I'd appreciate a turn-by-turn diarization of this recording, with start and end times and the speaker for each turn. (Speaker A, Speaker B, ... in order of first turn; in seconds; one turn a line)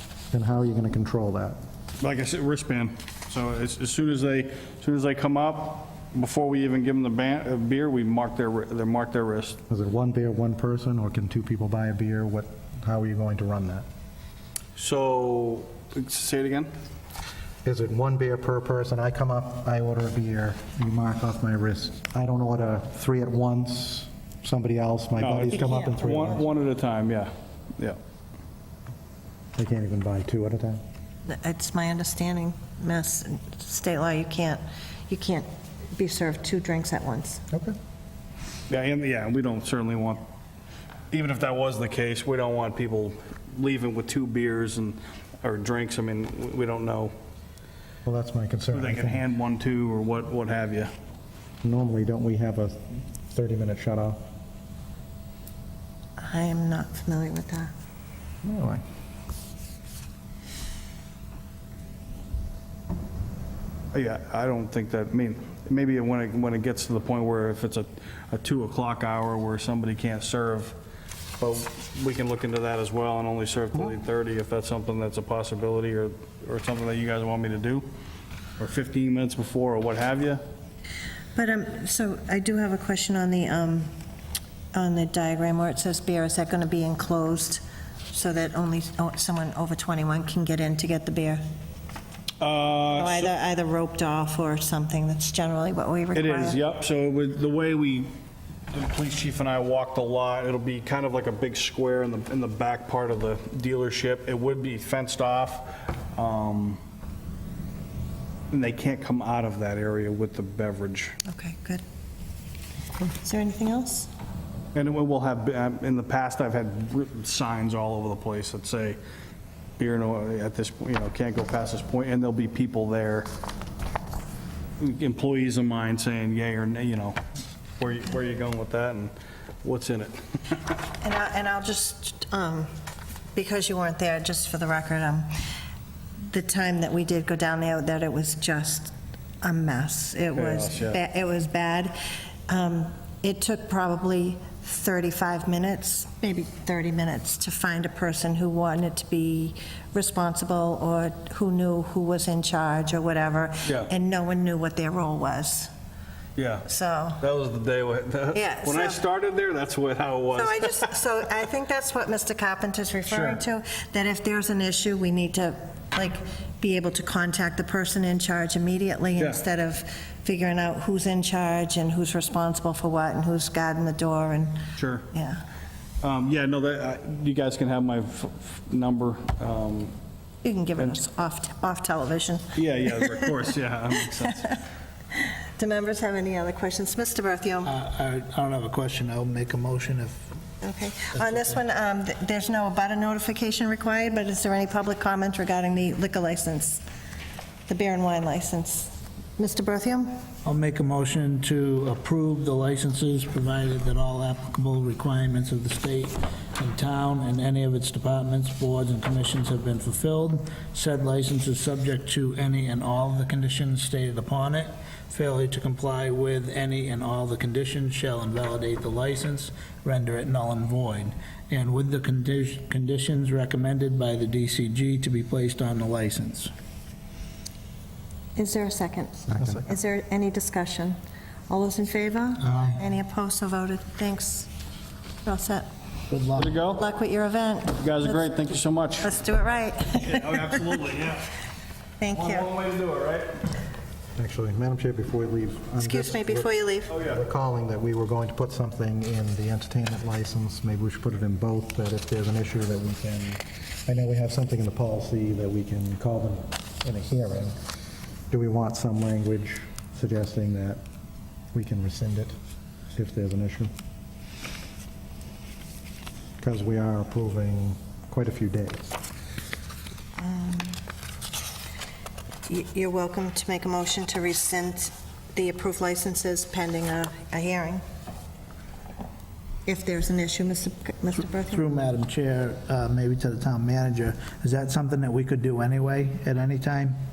Speaker A: 0.3-1.6
Speaker B: 2.0-9.6
Speaker A: 9.7-13.9
Speaker B: 14.8-16.7
Speaker A: 17.6-26.5
Speaker B: 25.2-28.0
Speaker A: 29.6-30.8
Speaker C: 31.3-37.4
Speaker A: 37.5-37.8
Speaker B: 38.7-40.2
Speaker B: 41.1-47.1
Speaker A: 48.0-49.2
Speaker B: 48.7-50.9
Speaker A: 51.6-52.8
Speaker A: 53.3-54.2
Speaker C: 56.2-57.7
Speaker A: 58.4-58.8
Speaker B: 63.9-70.8
Speaker B: 71.4-77.8
Speaker B: 78.6-80.4
Speaker C: 81.4-83.9
Speaker C: 84.7-91.4
Speaker B: 92.4-93.3
Speaker C: 92.9-96.6
Speaker B: 96.2-98.1
Speaker B: 98.7-106.8
Speaker B: 108.5-111.2
Speaker C: 111.3-111.8
Speaker C: 113.0-114.1
Speaker B: 114.8-119.0
Speaker B: 119.8-123.3
Speaker B: 124.8-127.2
Speaker B: 127.8-129.1
Speaker B: 129.6-130.2
Speaker C: 131.0-132.7
Speaker C: 133.3-135.3
Speaker C: 136.3-141.9
Speaker B: 140.3-141.0
Speaker C: 142.5-155.7
Speaker B: 153.7-153.9
Speaker B: 156.4-156.7
Speaker C: 156.7-157.2
Speaker B: 157.2-160.8
Speaker C: 158.3-159.0
Speaker C: 160.3-175.4
Speaker B: 163.1-163.4
Speaker B: 169.2-169.4
Speaker B: 174.8-175.1
Speaker B: 176.0-179.9
Speaker C: 180.4-183.3
Speaker B: 182.6-184.5
Speaker C: 185.2-187.7
Speaker D: 187.7-190.3
Speaker C: 190.6-196.8
Speaker C: 197.7-200.2
Speaker D: 200.4-226.5
Speaker C: 228.4-231.0
Speaker A: 229.3-229.7
Speaker C: 231.5-234.5
Speaker D: 232.5-232.8
Speaker C: 235.2-235.7
Speaker D: 236.1-236.5
Speaker B: 236.4-236.8
Speaker C: 236.6-237.8
Speaker B: 237.8-239.2
Speaker C: 239.0-240.6
Speaker B: 239.9-241.4
Speaker C: 242.0-242.5
Speaker B: 242.1-243.3
Speaker A: 244.2-257.6
Speaker C: 245.8-246.9
Speaker B: 246.9-247.2
Speaker A: 258.3-260.8
Speaker A: 261.5-262.4
Speaker A: 262.9-263.7
Speaker A: 266.4-268.9
Speaker C: 270.2-270.8
Speaker C: 272.5-277.8
Speaker C: 279.7-281.6
Speaker D: 281.5-286.9